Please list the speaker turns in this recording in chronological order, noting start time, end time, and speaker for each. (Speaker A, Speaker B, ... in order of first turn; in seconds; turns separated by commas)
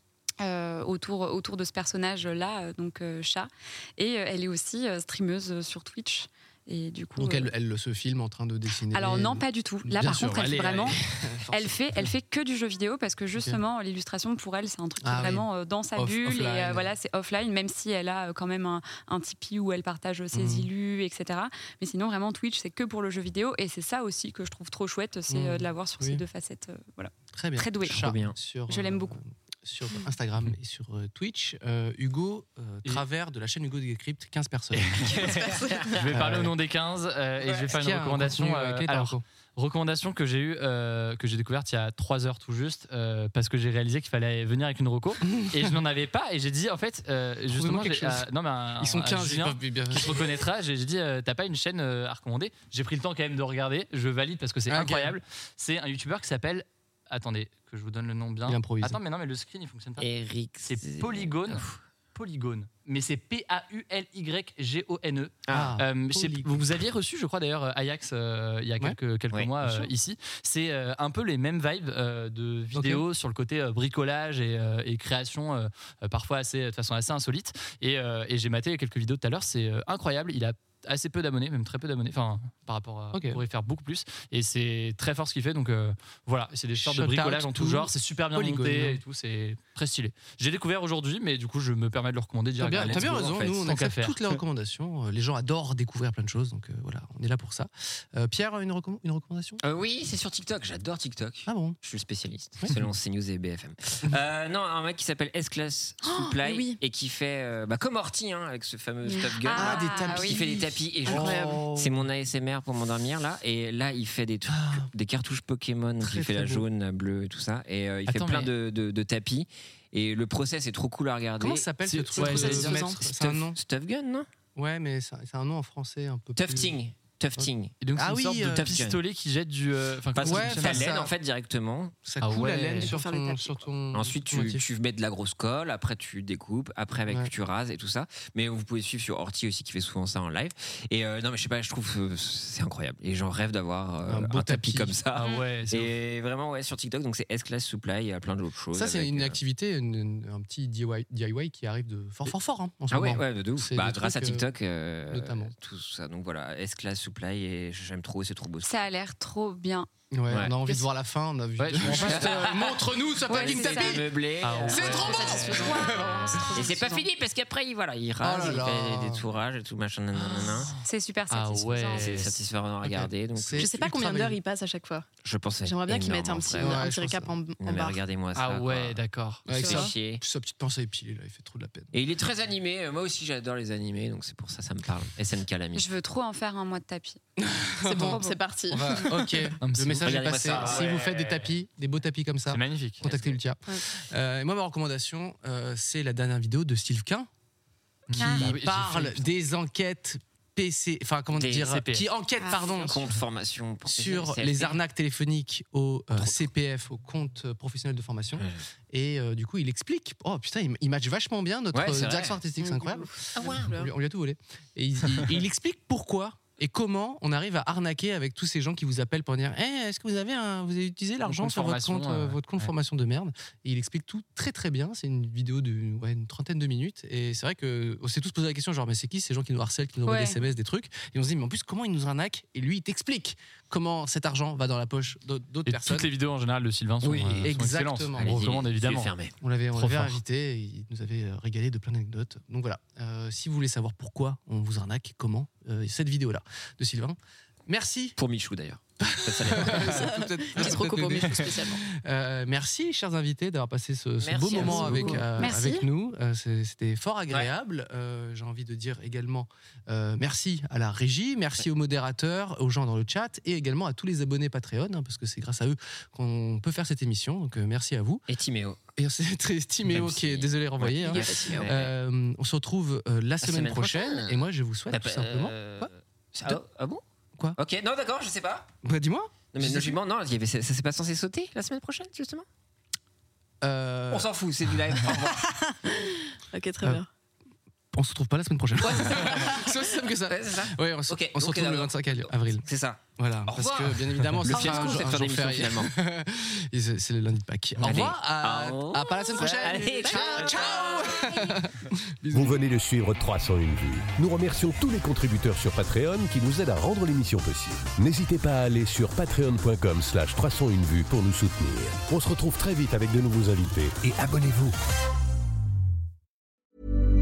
Speaker A: 0.4-7.5, Speaker B: 7.2-12.1, Speaker A: 8.9-11.0, Speaker A: 11.5-28.0, Speaker B: 15.0-16.9, Speaker B: 20.3-20.7, Speaker B: 25.3-26.2, Speaker B: 27.3-35.0, Speaker C: 27.9-28.4, Speaker A: 28.7-29.2, Speaker D: 35.0-35.4, Speaker E: 35.0-36.1, Speaker C: 35.1-36.1, Speaker D: 36.0-60.1, Speaker B: 36.1-36.5, Speaker C: 37.4-37.7, Speaker B: 37.7-39.2, Speaker B: 45.3-45.7, Speaker B: 47.5-48.2, Speaker B: 48.8-50.3, Speaker B: 54.7-55.2, Speaker B: 58.5-59.0, Speaker C: 60.0-61.8, Speaker D: 60.6-94.2, Speaker C: 65.5-65.8, Speaker B: 65.5-66.6, Speaker C: 69.3-69.9, Speaker B: 72.7-73.0, Speaker B: 83.1-83.4, Speaker B: 86.7-89.0, Speaker B: 92.6-99.6, Speaker C: 92.7-93.6, Speaker C: 99.6-121.7, Speaker B: 101.5-101.8, Speaker B: 102.6-102.9, Speaker E: 106.0-106.8, Speaker E: 109.1-110.3, Speaker A: 109.4-110.4, Speaker B: 109.5-112.0, Speaker E: 111.1-111.7, Speaker B: 114.5-114.9, Speaker B: 116.0-116.7, Speaker D: 118.1-118.5, Speaker B: 121.4-123.6, Speaker D: 121.8-122.8, Speaker E: 122.2-123.1, Speaker C: 123.2-124.3, Speaker B: 124.5-126.8, Speaker C: 126.4-127.8, Speaker B: 127.4-128.8, Speaker D: 127.8-131.0, Speaker C: 128.5-129.0, Speaker C: 130.1-131.9, Speaker B: 130.2-131.1, Speaker B: 132.1-134.7, Speaker D: 132.2-132.9, Speaker E: 132.4-133.7, Speaker C: 133.9-149.4, Speaker B: 144.1-145.0, Speaker D: 145.1-145.9, Speaker B: 148.7-154.5, Speaker C: 152.9-158.7, Speaker B: 155.1-155.5, Speaker A: 158.6-159.9, Speaker B: 160.1-166.5, Speaker D: 161.6-162.6, Speaker C: 161.8-165.7, Speaker A: 163.3-164.0, Speaker D: 164.4-164.9, Speaker A: 164.6-166.8, Speaker E: 165.3-167.1, Speaker C: 166.6-170.7, Speaker B: 168.2-169.2, Speaker D: 170.3-172.4, Speaker B: 170.3-170.6, Speaker A: 170.8-172.2, Speaker C: 172.0-173.7, Speaker B: 172.8-174.4, Speaker E: 173.6-175.1, Speaker C: 175.2-176.9, Speaker E: 175.6-178.0, Speaker B: 176.6-177.4, Speaker C: 177.6-180.2, Speaker D: 178.3-179.7, Speaker B: 179.5-181.9, Speaker E: 179.5-179.9, Speaker C: 181.9-185.9, Speaker A: 185.7-187.2, Speaker B: 187.4-197.3, Speaker E: 187.8-189.6, Speaker A: 188.1-188.4, Speaker D: 189.6-191.6, Speaker C: 190.0-191.0, Speaker D: 192.5-193.2, Speaker C: 193.1-193.4, Speaker D: 198.1-199.3, Speaker B: 198.2-203.0, Speaker A: 198.2-198.5, Speaker C: 201.3-201.8, Speaker D: 201.7-202.1, Speaker E: 202.4-203.0, Speaker C: 202.5-204.8, Speaker B: 203.9-236.1, Speaker C: 211.7-212.4, Speaker E: 212.6-213.9, Speaker C: 213.4-213.7, Speaker D: 221.2-222.7, Speaker A: 230.1-230.4, Speaker D: 235.7-239.2, Speaker C: 237.0-237.6, Speaker B: 237.4-238.4, Speaker C: 238.2-239.3, Speaker B: 239.4-248.2, Speaker D: 239.8-240.2, Speaker C: 248.2-251.3, Speaker B: 249.0-268.2, Speaker E: 249.9-251.8, Speaker C: 254.2-255.3, Speaker E: 254.5-255.3, Speaker A: 255.4-255.9, Speaker C: 268.3-268.8, Speaker B: 269.0-275.9, Speaker C: 269.9-271.9, Speaker E: 270.9-271.8, Speaker C: 273.4-277.0, Speaker C: 277.6-278.7, Speaker B: 278.8-280.0, Speaker C: 279.5-282.5, Speaker B: 283.6-284.3, Speaker C: 284.1-285.5, Speaker E: 286.5-287.1, Speaker B: 287.9-292.6, Speaker C: 288.8-295.9, Speaker B: 293.2-302.6, Speaker C: 297.8-301.2, Speaker E: 299.5-301.3, Speaker F: 302.3-314.7